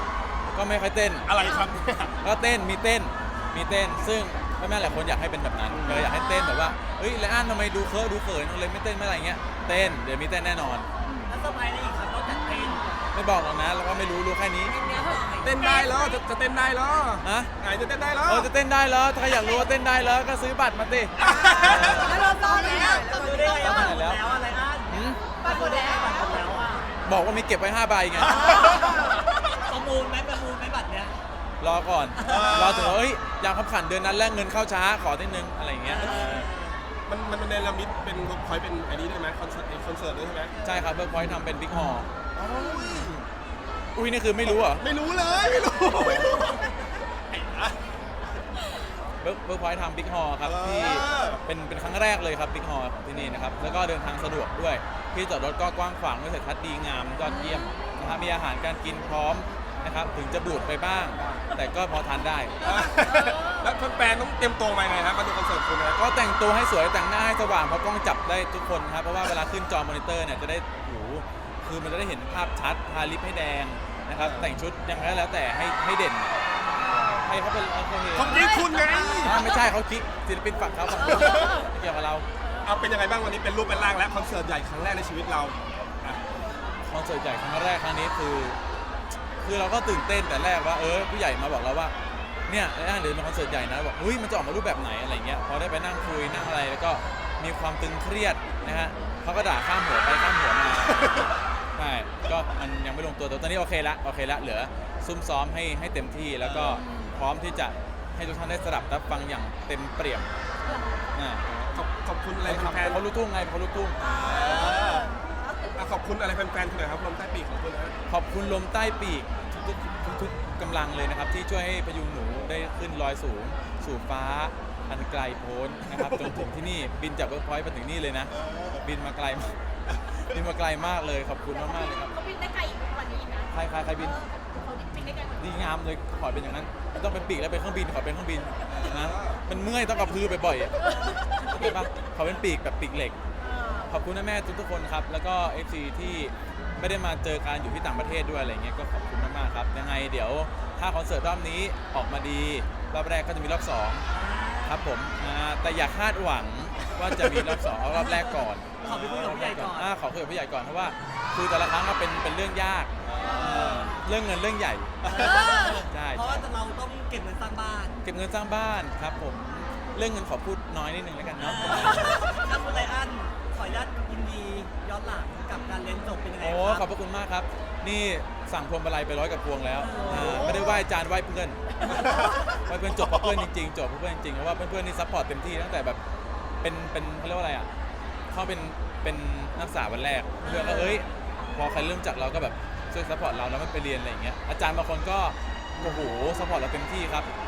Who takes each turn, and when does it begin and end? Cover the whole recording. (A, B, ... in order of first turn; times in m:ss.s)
0:00.5-0:01.3 A
0:01.2-0:02.2 B
0:02.2-0:10.9 A
0:05.7-0:06.1 B
0:06.3-0:06.6 C
0:11.1-0:11.3 C
0:11.3-0:13.0 D
0:12.3-0:12.8 C
0:13.1-0:14.8 A
0:14.6-0:15.6 D
0:14.9-0:16.2 C
0:15.4-0:18.5 B
0:17.2-0:17.5 A
0:18.2-0:22.3 A
0:21.2-0:22.8 B
0:21.3-0:23.9 C
0:21.4-0:26.9 D
0:23.5-0:24.2 A
0:24.9-0:25.2 A
0:25.4-0:26.4 C
0:27.0-0:28.6 A
0:28.2-0:29.2 B
0:28.3-0:31.2 D
0:31.6-0:36.5 A
0:32.2-0:32.5 D
0:32.2-0:33.0 B
0:35.8-0:36.8 D
0:37.1-0:40.5 B
0:40.6-0:42.1 A
0:42.3-0:43.2 B
0:42.9-0:43.2 A
0:43.9-0:44.8 A
0:44.5-0:47.8 B
0:46.0-0:46.5 A
0:49.2-1:02.7 A
0:50.4-0:51.4 B
0:57.2-0:58.0 C
1:02.6-1:06.0 B
1:02.7-1:03.7 C
1:05.9-1:16.4 A
1:14.2-1:14.6 B
1:16.9-1:18.6 A
1:18.1-1:19.4 B
1:18.5-1:19.3 C
1:19.2-1:22.2 A
1:20.9-1:21.6 B
1:21.4-1:21.6 C
1:22.6-1:26.2 B
1:26.8-1:28.6 A
1:29.4-1:31.9 A
1:32.5-1:50.3 A
1:38.6-1:39.3 C
1:40.9-1:41.3 B
1:46.4-1:46.8 B
1:46.8-1:47.1 C
1:50.6-1:51.1 C
1:51.1-1:51.4 A
1:51.5-1:53.0 B
1:52.4-1:54.0 A
1:54.0-1:55.1 B
1:54.0-1:55.7 C
1:55.7-1:58.0 B
1:58.1-2:09.6 A
2:06.0-2:06.4 B
2:10.1-2:12.1 A
2:11.5-2:15.4 C
2:13.5-2:14.2 A
2:15.4-2:23.2 A
2:18.7-2:19.4 B
2:20.8-2:21.1 C
2:23.4-2:23.9 C
2:23.8-2:34.0 A
2:34.1-2:34.8 D
2:34.6-2:45.1 A
2:37.2-2:37.6 B
2:37.9-2:39.9 D
2:38.8-2:39.3 B
2:43.0-2:43.9 B
2:43.3-2:44.0 D
2:45.0-2:45.8 B
2:45.1-2:48.0 D
2:45.9-2:46.4 A
2:48.0-2:52.2 A
2:51.4-2:56.8 D
2:56.4-3:06.0 A
2:59.8-3:00.8 D
3:00.1-3:00.8 B
3:01.8-3:02.5 D
3:06.6-3:07.7 A
3:08.3-3:17.3 A
3:10.4-3:11.0 D